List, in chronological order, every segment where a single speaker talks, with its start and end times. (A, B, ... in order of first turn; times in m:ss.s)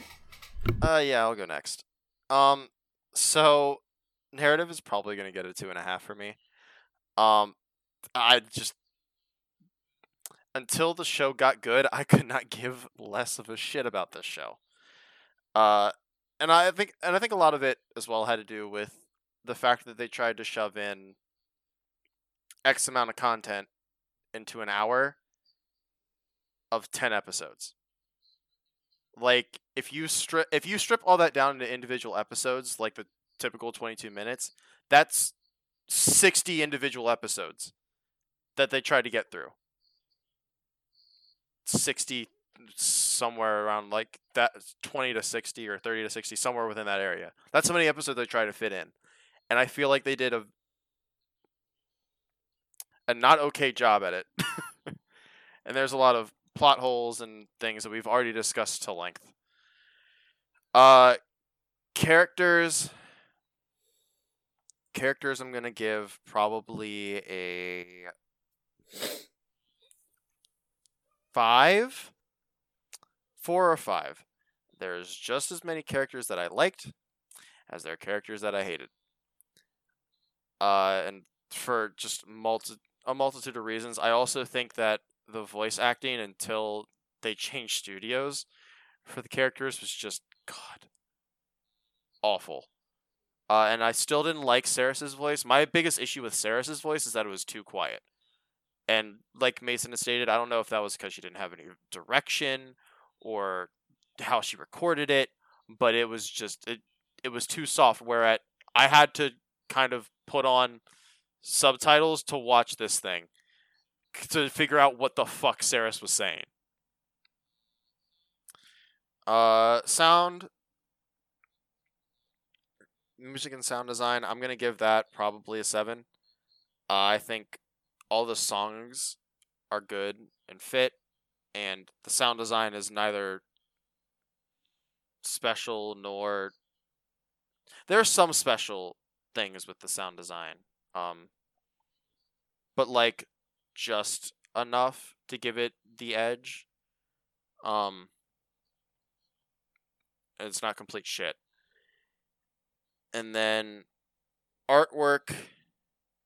0:00.8-0:03.8 A
0:04.3-0:06.4 A
0:07.2-0:07.6 A
0:08.2-0:08.8 A
0:10.6-0:14.6 A
0:15.6-0:21.2 A
0:22.6-0:23.7 A
0:24.3-0:25.2 A
0:26.7-0:27.7 A
0:29.2-0:35.3 A
0:35.9-0:37.7 A
0:38.6-0:39.5 A
0:41.6-0:48.9 A
0:49.5-0:50.5 A
0:53.1-0:54.9 A
0:55.6-0:59.3 A
1:00.7-1:01.2 A
1:02.0-1:02.9 A
1:04.9-1:08.1 A
1:11.3-1:12.1 A
1:13.4-1:14.2 A
1:14.8-1:16.9 A
1:17.7-1:18.9 A
1:20.6-1:28.5 A
1:29.1-1:30.9 A
1:32.2-1:32.7 A
1:33.5-1:38.0 A
1:38.9-1:50.8 A
1:51.4-1:53.3 A
1:54.1-1:56.5 A
1:59.3-2:00.5 A
2:03.2-2:06.0 A
2:06.9-2:07.6 A
2:08.1-2:09.2 A
2:09.7-2:11.0 A
2:11.5-2:13.4 A
2:15.2-2:16.5 A
2:17.9-2:21.3 A
2:22.8-2:26.7 A
2:27.6-2:28.1 A
2:30.4-2:31.4 A
2:33.1-2:33.8 A
2:34.7-2:35.5 A